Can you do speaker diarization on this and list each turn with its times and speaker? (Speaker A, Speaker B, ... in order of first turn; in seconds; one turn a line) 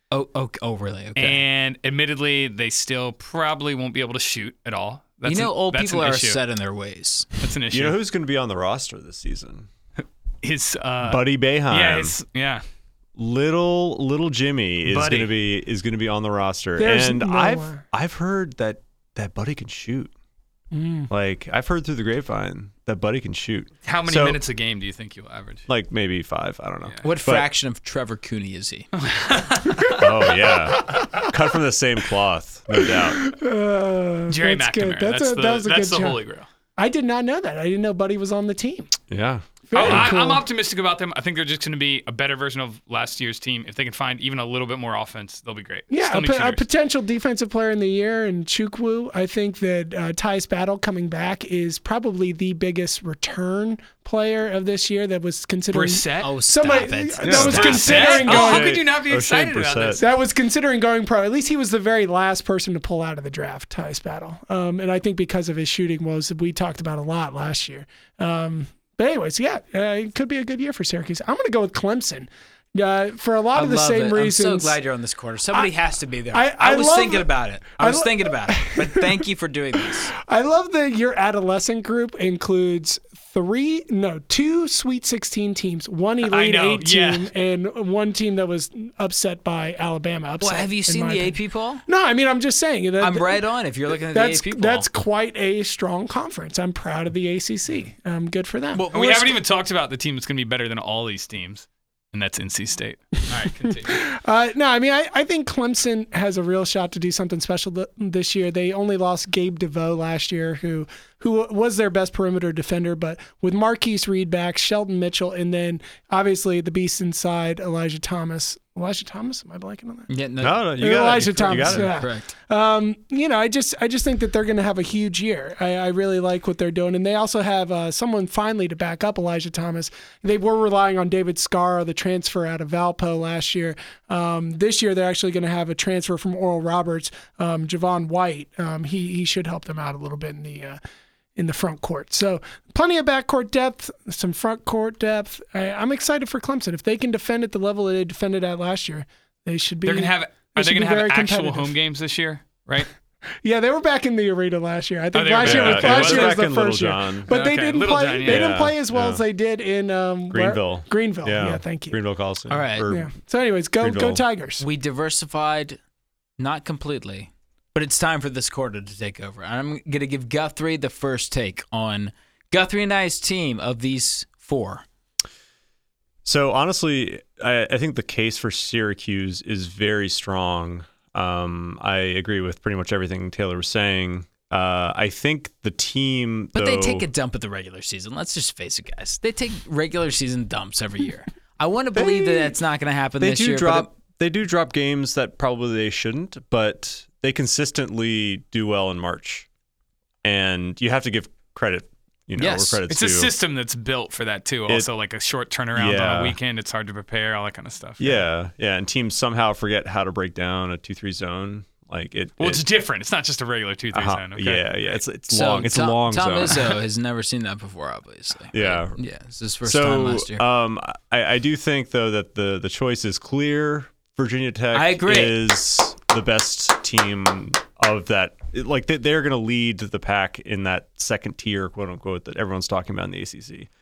Speaker A: 0.1-1.4
Speaker B: 1.1-6.4
Speaker A: 5.2-7.4
Speaker B: 7.4-8.0
Speaker C: 7.7-9.7
Speaker B: 10.4-12.6
Speaker C: 11.0-12.2
Speaker C: 13.2-20.1
Speaker B: 14.9-15.3
Speaker D: 16.8-17.8
Speaker D: 20.7-21.1
Speaker C: 21.1-24.4
Speaker B: 23.8-25.6
Speaker C: 25.7-27.5
Speaker A: 27.0-28.9
Speaker B: 29.0-30.1
Speaker C: 29.9-33.2
Speaker D: 30.7-31.3
Speaker D: 32.8-36.2
Speaker B: 34.3-36.5
Speaker D: 36.8-38.9
Speaker C: 39.1-40.1
Speaker D: 39.7-40.4
Speaker B: 39.7-46.6
Speaker D: 45.9-58.8
Speaker B: 55.7-56.3
Speaker A: 56.2-58.2
Speaker C: 57.2-60.0
Speaker B: 57.3-60.0
Speaker D: 60.0-74.8
Speaker A: 73.5-80.1
Speaker D: 76.3-79.2
Speaker D: 79.8-98.9
Speaker B: 86.2-87.3
Speaker A: 90.4-91.8
Speaker A: 93.0-94.8
Speaker A: 98.7-99.4
Speaker B: 98.9-104.0
Speaker D: 103.6-120.1
Speaker A: 120.1-122.3
Speaker C: 120.4-121.9
Speaker D: 120.8-140.8
Speaker D: 141.3-151.7
Speaker B: 149.8-152.9
Speaker D: 153.4-162.0
Speaker B: 155.1-156.4
Speaker C: 155.4-157.3
Speaker B: 157.3-158.5
Speaker C: 158.2-159.2
Speaker C: 160.3-163.1
Speaker A: 162.5-162.9
Speaker D: 162.9-164.6
Speaker C: 163.8-164.2
Speaker A: 164.6-165.8
Speaker A: 166.4-174.8
Speaker C: 176.2-187.1
Speaker A: 186.5-193.9
Speaker C: 191.9-192.6
Speaker C: 193.2-199.5
Speaker C: 200.2-203.3
Speaker A: 202.4-202.8
Speaker B: 202.9-208.2
Speaker C: 205.7-206.4
Speaker C: 208.0-212.6
Speaker B: 212.4-215.0
Speaker C: 213.9-216.8
Speaker A: 215.3-220.4
Speaker C: 218.5-219.0
Speaker C: 219.6-233.7
Speaker A: 224.7-225.4